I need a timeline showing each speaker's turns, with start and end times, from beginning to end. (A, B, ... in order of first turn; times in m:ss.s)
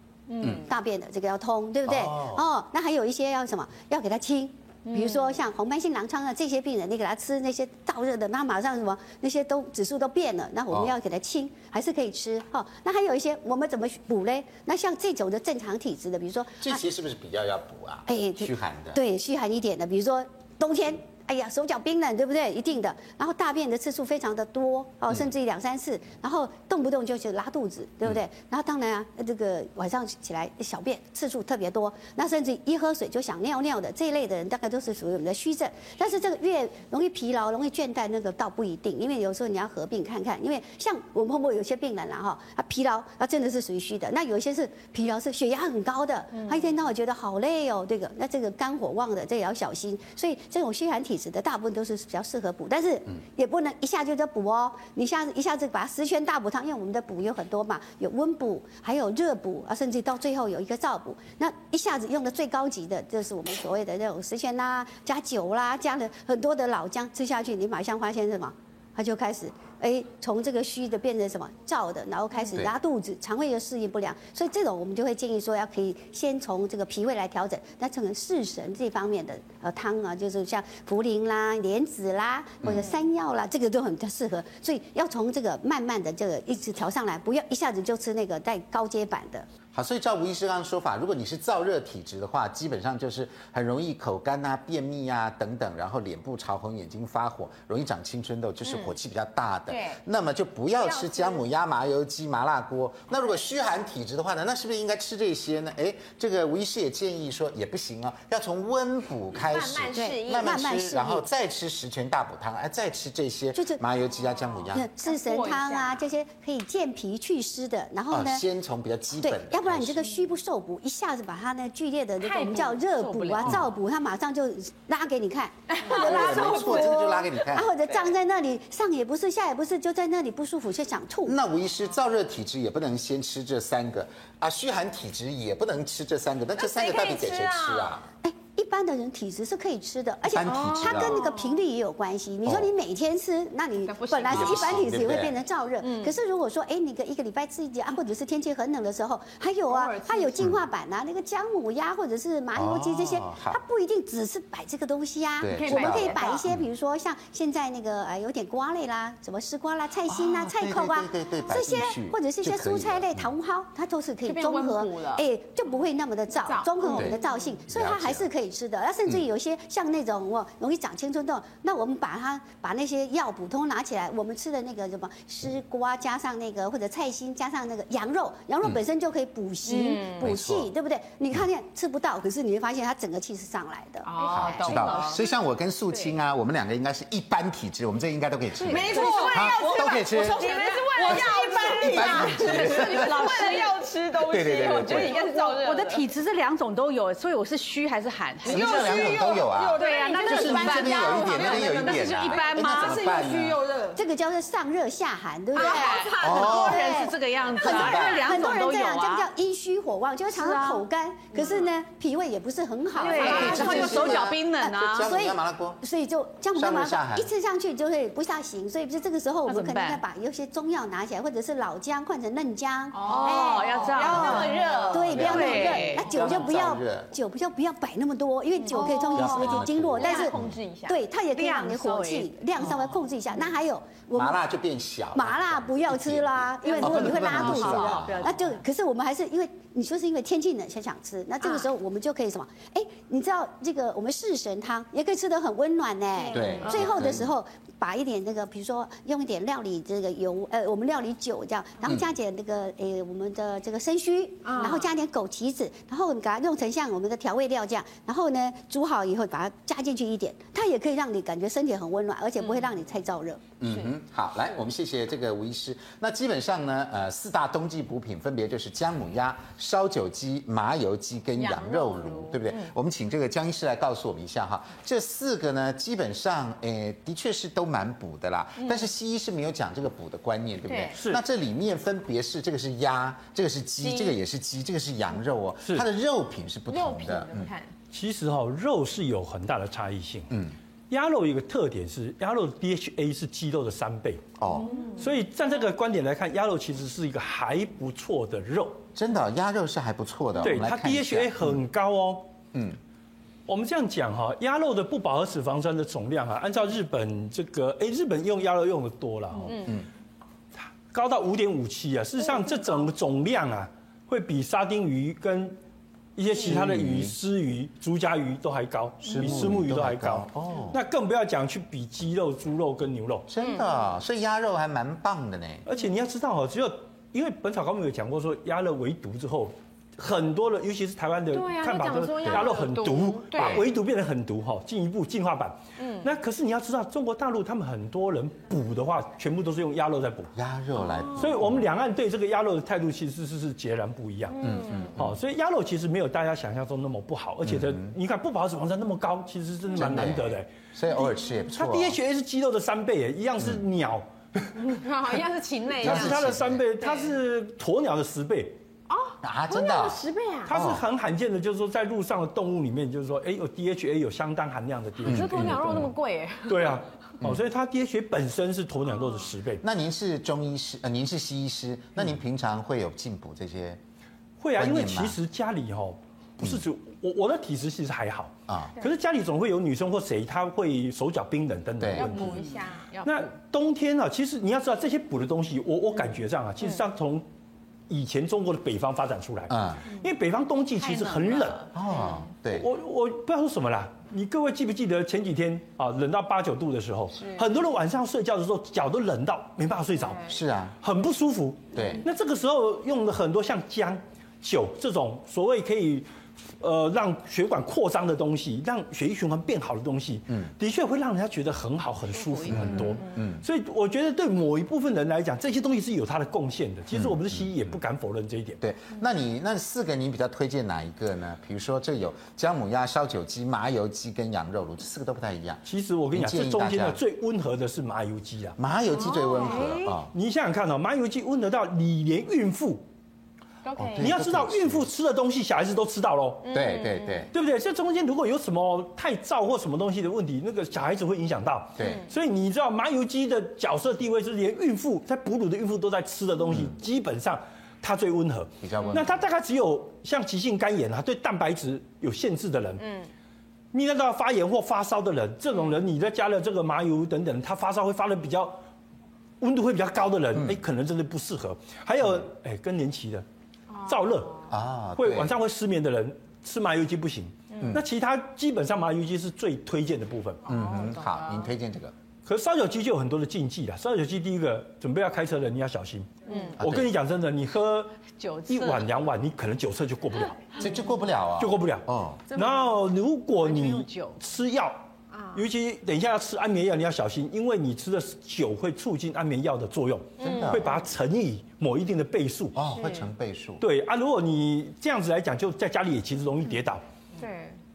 0:00.3-0:00.7 A
0:00.4-0:16.8 B
0:01.9-0:02.4 C
0:04.9-0:05.4 A
0:16.6-0:19.0 C
0:18.1-1:29.5 B
0:46.3-0:46.7 A
1:22.6-1:22.9 C
1:29.7-1:54.9 C
1:39.7-1:40.0 A
1:40.8-1:41.4 A
1:49.4-1:50.6 A
1:49.9-1:51.2 B
1:53.5-1:53.8 B
1:54.2-1:56.0 A
1:54.7-1:58.5 B
1:58.1-2:00.2 C
1:59.2-2:11.4 B
2:02.2-2:03.7 A
2:05.7-2:07.0 A
2:05.8-2:07.7 C
2:11.2-2:18.0 C
2:16.6-2:18.0 A
2:18.2-3:04.1 B
2:20.2-2:21.2 C
2:20.4-2:21.6 A
2:22.4-2:22.7 C
2:23.8-2:25.1 A
2:24.3-2:25.3 C
2:25.8-2:26.1 A
2:29.7-2:30.5 A
2:32.5-2:33.6 C
2:35.4-2:36.7 C
2:35.5-2:36.4 A
2:40.1-2:43.3 C
2:44.2-2:45.2 A
2:46.4-2:47.3 A
2:46.9-2:47.2 C
2:47.7-2:48.3 C
2:59.6-3:00.3 A
3:00.2-3:00.7 C
3:04.1-3:05.2 A
3:04.1-3:05.2 D
3:04.3-3:10.4 C
3:08.6-3:16.1 A
3:08.6-3:09.4 D
3:08.7-3:13.7 E
3:10.7-3:11.1 D
3:11.1-3:13.4 C
3:13.3-3:13.6 D
3:14.2-3:15.2 C
3:14.7-3:15.1 E
3:15.0-3:19.2 D
3:18.4-3:24.0 E
3:18.4-3:23.6 C
3:19.8-3:23.1 D
3:19.9-3:20.3 A
3:20.9-3:21.4 A
3:23.9-3:50.3 B
3:25.5-3:26.9 A
3:25.5-3:29.3 D
3:26.2-3:26.9 C
3:27.6-3:28.2 C
3:30.3-3:30.8 D
3:33.0-3:35.1 D
3:33.0-3:34.1 A
3:33.2-3:35.8 C
3:36.5-3:37.3 C
3:39.5-3:40.0 D
3:42.9-3:45.9 A
3:43.0-3:46.1 D
3:45.0-3:47.1 C
3:48.7-3:51.0 A
3:48.7-3:49.1 D
3:49.1-3:50.6 C
3:50.9-3:54.4 B
3:51.3-3:52.3 D
3:54.1-3:58.3 C
3:55.1-4:23.4 B
3:56.6-3:58.5 A
3:56.8-3:58.2 D
4:06.1-4:06.9 A
4:06.3-4:07.3 C
4:14.4-4:14.9 A
4:23.6-4:47.5 C
4:31.4-4:32.6 A
4:38.6-4:38.9 A
4:40.7-4:41.0 A
4:40.9-4:41.2 F
4:43.8-4:44.2 A
4:46.7-4:47.7 A
4:47.9-4:50.3 F
4:50.3-4:50.6 C
4:50.9-4:54.3 F
4:54.4-4:54.7 C
4:54.5-4:55.1 A
4:54.9-4:58.8 F
4:58.9-5:01.6 C
5:00.4-5:02.3 F
5:03.5-5:09.7 F
5:10.6-5:15.6 F
5:16.2-5:23.3 F
5:16.3-5:17.2 C
5:19.0-5:20.8 C
5:23.3-5:25.6 C
5:23.4-5:23.9 A
5:25.6-5:40.3 F
5:31.3-5:33.7 A
5:32.2-5:32.5 C
5:33.3-5:33.7 C
5:35.8-5:36.1 A
5:40.3-5:41.6 C
5:40.7-5:41.5 A
5:41.1-5:50.5 F
5:44.3-5:45.0 A
5:44.4-5:45.2 C
5:47.4-5:47.9 C
5:49.7-5:52.0 C
5:51.5-5:54.6 F
5:54.6-5:57.1 A
5:55.8-5:58.6 F
5:55.8-5:56.6 C
5:58.9-6:00.5 A
5:59.2-6:00.8 C
6:00.4-6:09.6 F
6:05.0-6:05.9 C
6:05.0-6:06.8 A
6:09.0-6:09.2 A
6:09.6-6:13.8 C
6:14.4-6:22.5 F
6:14.6-6:15.2 C
6:18.5-6:18.7 C
6:21.8-6:22.4 C
6:21.9-6:23.1 A
6:23.0-6:27.3 F
6:27.9-6:31.7 F
6:29.5-6:29.8 C
6:30.8-6:31.7 D
6:31.7-6:32.7 C
6:32.5-6:46.1 F
6:37.1-6:37.5 A
6:40.0-6:40.2 A
6:40.2-6:40.7 C
6:41.7-6:42.0 C
6:46.6-6:58.6 F
6:52.2-6:52.7 D
6:52.5-6:53.4 C
6:56.9-6:57.8 C
6:58.6-7:07.0 C
7:05.6-7:08.6 F
7:08.6-7:10.1 C
7:08.9-7:10.0 A
7:10.1-7:12.8 F
7:13.6-7:14.2 A
7:13.7-7:14.9 C
7:14.0-7:16.6 F
7:16.4-7:17.3 A
7:16.5-7:17.3 C
7:17.3-7:32.9 F
7:21.8-7:22.0 C
7:26.5-7:26.8 C
7:28.6-7:29.1 C
7:32.8-7:33.1 A
7:33.7-7:38.6 F
7:39.4-7:43.2 F
7:40.3-7:40.6 C
7:42.0-7:42.2 C
7:43.7-7:44.3 A
7:43.8-7:50.4 F
7:44.5-7:45.4 C
7:47.6-7:47.8 C
7:50.4-7:51.9 C
7:50.5-7:51.3 A
7:52.2-8:00.6 F
7:56.3-7:56.6 D
7:56.6-7:56.9 C
7:58.1-7:58.9 D
8:00.6-8:02.2 C
8:01.4-8:04.8 F
8:02.3-8:02.8 D
8:03.4-8:04.2 D
8:05.1-8:05.4 A
8:05.3-8:12.6 F
8:10.2-8:10.7 C
8:10.2-8:10.8 A
8:12.5-8:13.6 C
8:12.6-8:13.1 A
8:13.6-8:16.8 F
8:17.2-8:17.6 A